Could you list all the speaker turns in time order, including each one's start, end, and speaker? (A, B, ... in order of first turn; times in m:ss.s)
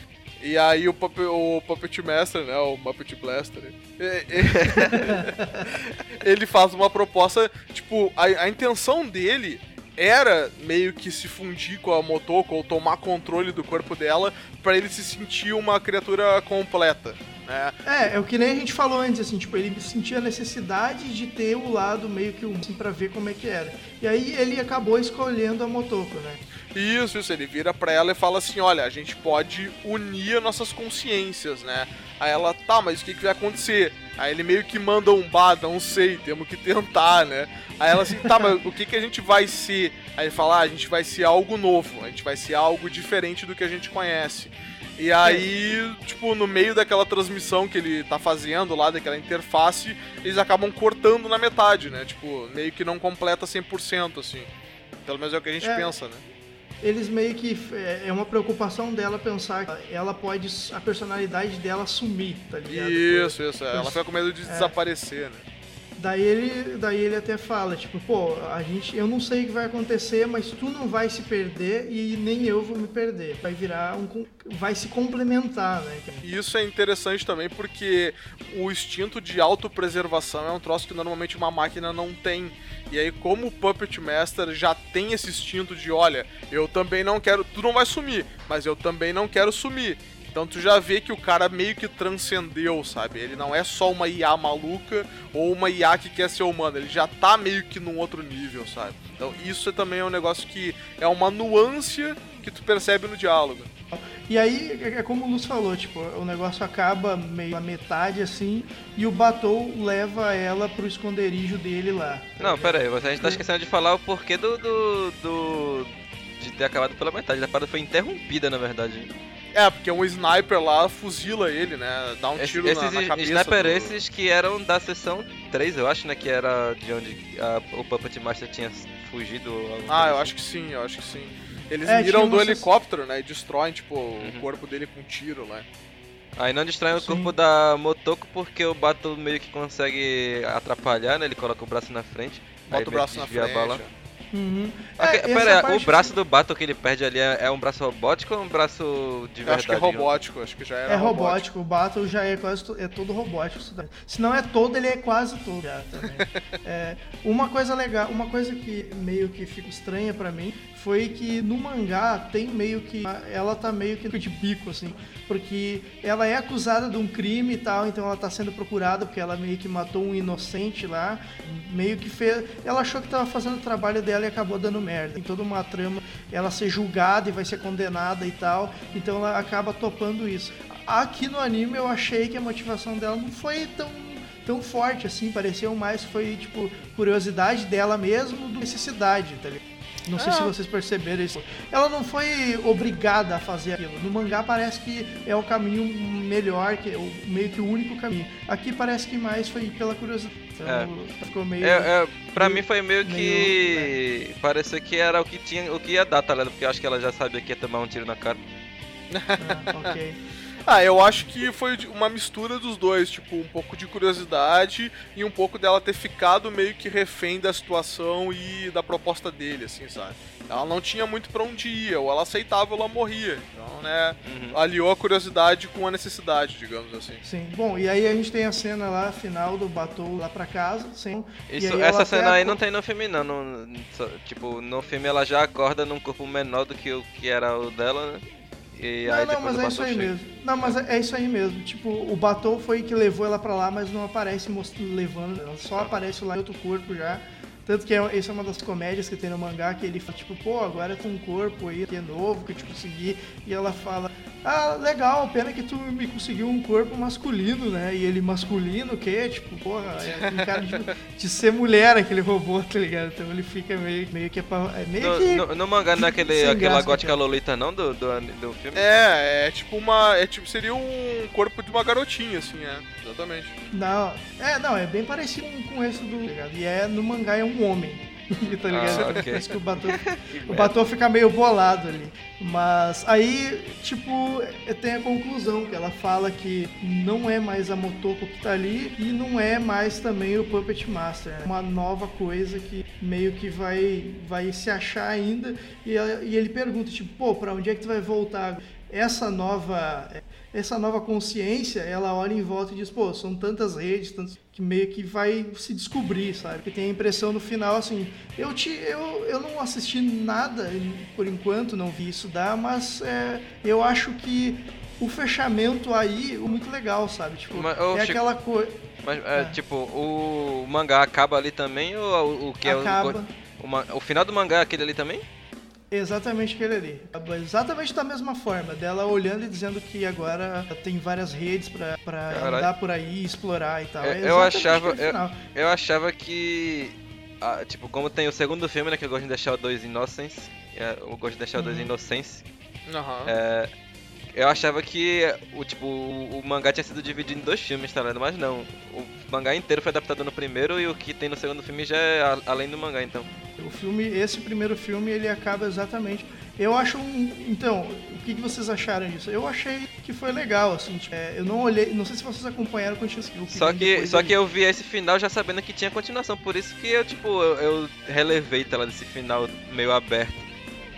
0:00.4-0:17.8 A
0:04.5-0:04.9 B
0:05.0-0:05.6 C
0:17.8-0:26.4 C
0:26.7-0:54.5 A
0:45.2-0:45.5 C
0:55.0-0:56.2 A
0:55.6-0:55.9 C
0:56.8-1:04.7 C
1:02.7-1:05.4 A
1:06.0-1:16.3 C
1:16.2-1:43.7 A
1:43.9-1:53.4 C
1:52.4-1:59.1 B
1:59.5-2:04.0 A
2:02.4-2:10.3 B
2:09.9-2:15.6 A
2:11.8-2:12.7 C
2:16.4-2:23.8 B
2:16.9-2:17.3 C
2:22.7-2:23.9 A
2:24.3-2:26.1 C
2:25.0-2:30.1 B
2:29.4-2:31.4 A
2:30.9-3:23.9 C
3:10.2-3:10.5 A
3:20.6-3:20.9 B
3:21.6-3:28.4 B
3:29.1-3:29.9 A
3:29.4-3:30.2 C
3:30.6-3:47.2 A
3:44.2-3:44.6 B
3:47.2-3:52.6 C
3:51.5-4:00.1 B
3:59.0-4:27.2 C
4:20.2-4:20.6 A
4:25.0-4:29.0 B
4:28.7-4:33.5 A
4:33.7-5:18.8 C
4:38.7-4:40.9 B
4:38.8-4:39.3 A
5:17.5-5:18.2 B
5:19.0-5:25.2 B
5:22.6-5:23.3 C
5:25.9-5:35.4 C
5:32.3-5:32.7 B
5:34.0-5:42.4 B
5:41.6-5:41.9 C
5:42.9-5:43.3 A
5:43.2-5:43.7 B
5:44.3-5:53.3 B
5:53.6-6:04.4 C
6:03.5-6:10.4 B